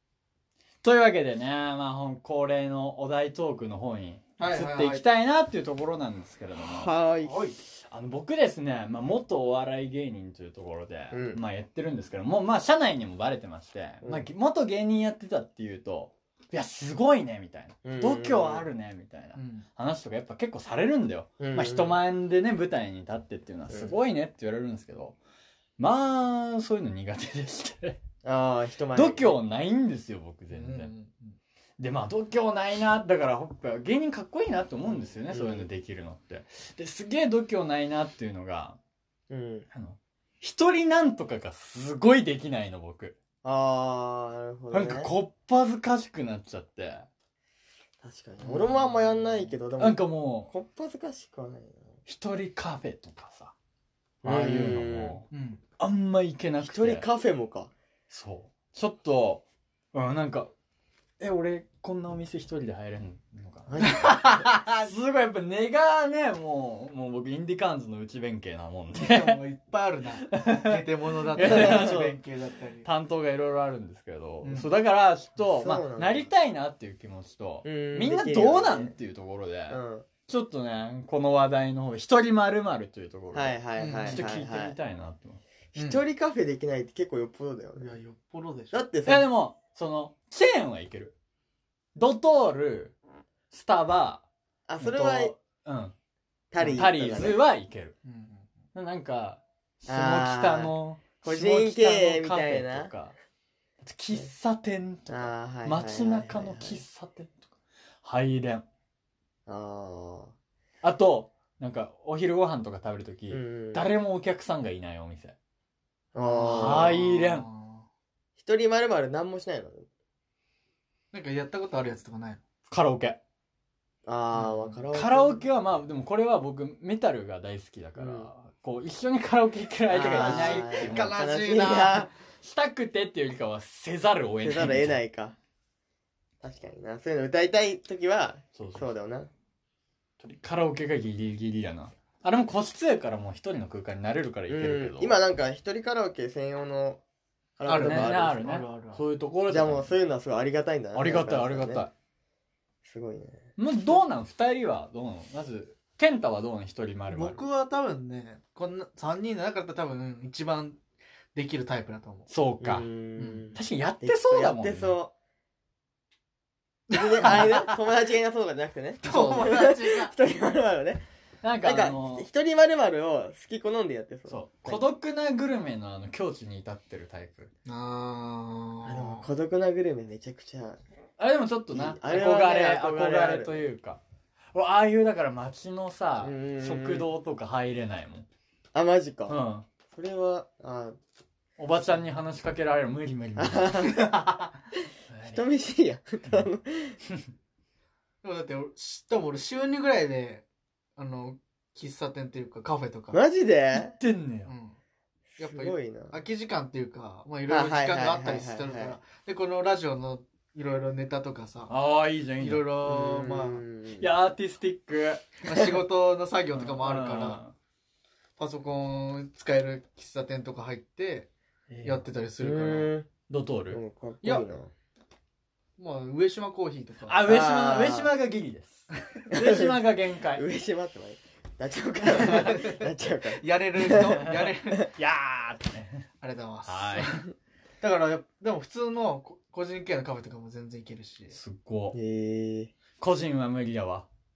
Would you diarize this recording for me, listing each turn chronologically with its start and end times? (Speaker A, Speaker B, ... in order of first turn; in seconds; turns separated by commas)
Speaker A: 0.8-25.2, Speaker B: 4.4-5.0, Speaker C: 6.6-7.4, Speaker B: 7.3-7.5, Speaker C: 11.1-11.4, Speaker C: 17.8-18.6, Speaker B: 19.3-19.6, Speaker C: 21.4-22.0, Speaker C: 23.7-23.9, Speaker A: 25.8-28.0, Speaker C: 28.2-29.3, Speaker A: 28.9-30.9, Speaker B: 30.5-31.4, Speaker A: 31.8-38.8, Speaker C: 35.3-35.7, Speaker C: 39.3-39.7, Speaker A: 39.7-43.2, Speaker C: 43.4-45.1, Speaker A: 44.7-47.1, Speaker C: 48.0-52.0, Speaker A: 49.8-50.5, Speaker A: 52.1-53.5, Speaker A: 54.2-57.1, Speaker C: 54.2-55.2, Speaker B: 55.3-55.6, Speaker C: 56.6-57.7, Speaker A: 58.1-60.5, Speaker A: 61.2-69.4, Speaker C: 63.7-64.3, Speaker B: 63.8-64.9, Speaker B: 68.9-72.9, Speaker A: 70.3-70.8, Speaker A: 71.3-72.2, Speaker C: 71.4-72.1, Speaker A: 72.8-85.4, Speaker B: 74.4-74.7, Speaker C: 75.5-76.3, Speaker C: 77.6-78.9, Speaker C: 79.7-80.1, Speaker C: 83.3-84.8, Speaker B: 83.8-84.2, Speaker C: 85.7-87.9, Speaker B: 85.8-86.0, Speaker B: 87.8-88.8, Speaker C: 88.7-89.3, Speaker A: 89.0-91.1, Speaker A: 91.9-93.0, Speaker A: 93.5-94.2, Speaker C: 94.7-95.3, Speaker A: 94.8-95.9, Speaker C: 96.5-97.4, Speaker A: 96.6-97.9, Speaker B: 98.0-98.5, Speaker A: 98.7-103.1, Speaker C: 99.9-102.9, Speaker A: 103.8-107.4, Speaker C: 105.1-106.8, Speaker A: 108.0-108.6, Speaker C: 109.5-110.3, Speaker A: 110.8-115.3, Speaker C: 113.3-113.9, Speaker C: 116.1-117.0, Speaker B: 116.2-117.9, Speaker A: 116.4-117.5, Speaker C: 118.3-119.9, Speaker B: 121.1-122.4, Speaker A: 122.7-123.2, Speaker C: 124.0-125.4, Speaker B: 124.3-124.8, Speaker A: 124.9-131.1, Speaker C: 128.0-128.3, Speaker C: 129.9-132.1, Speaker B: 130.0-132.1, Speaker A: 132.4-135.0, Speaker C: 134.4-135.3, Speaker C: 136.4-139.3, Speaker A: 138.6-138.9, Speaker A: 140.2-145.1, Speaker C: 144.5-147.0, Speaker C: 147.6-148.4, Speaker B: 147.7-149.0, Speaker A: 147.7-149.9, Speaker C: 149.5-151.8, Speaker A: 150.9-151.9, Speaker C: 152.8-153.5, Speaker A: 153.6-157.4, Speaker B: 157.1-160.8, Speaker B: 161.3-162.3, Speaker A: 162.3-162.9, Speaker C: 162.6-165.1, Speaker B: 163.2-163.5, Speaker A: 163.5-165.0, Speaker B: 166.9-167.7, Speaker C: 166.9-171.0, Speaker B: 169.0-170.1, Speaker A: 171.4-172.3, Speaker C: 171.6-174.8, Speaker A: 174.3-177.5, Speaker B: 177.7-179.3, Speaker C: 178.8-180.8, Speaker A: 181.2-184.0, Speaker C: 181.7-183.7, Speaker A: 184.5-188.2, Speaker C: 186.2-187.1, Speaker C: 188.7-189.4, Speaker A: 189.3-189.7, Speaker C: 189.9-191.0, Speaker A: 191.6-193.9, Speaker C: 193.4-194.1, Speaker B: 194.0-194.5, Speaker A: 195.1-195.4, Speaker C: 195.2-197.0, Speaker B: 198.2-200.4, Speaker B: 201.0-203.2, Speaker C: 203.1-203.9, Speaker A: 203.7-204.5, Speaker B: 204.4-204.8, Speaker C: 205.3-206.2, Speaker B: 205.4-211.7, Speaker C: 207.5-209.0, Speaker A: 211.7-212.7, Speaker B: 212.4-213.6, Speaker C: 212.8-214.1, Speaker A: 214.0-215.2, Speaker B: 215.4-217.4, Speaker A: 216.5-217.5, Speaker B: 218.4-221.3, Speaker A: 221.7-222.1, Speaker B: 221.8-222.9, Speaker C: 222.4-223.1, Speaker A: 223.3-223.8, Speaker C: 223.7-224.7, Speaker B: 225.8-227.3, Speaker A: 227.1-230.4, Speaker C: 227.2-228.1, Speaker C: 229.3-229.7, Speaker C: 230.3-234.3, Speaker B: 232.0-234.9, Speaker A: 234.3-236.0, Speaker B: 236.2-237.2, Speaker A: 236.7-237.2, Speaker B: 237.8-241.3, Speaker A: 241.3-242.0, Speaker C: 241.9-242.7, Speaker A: 243.0-244.1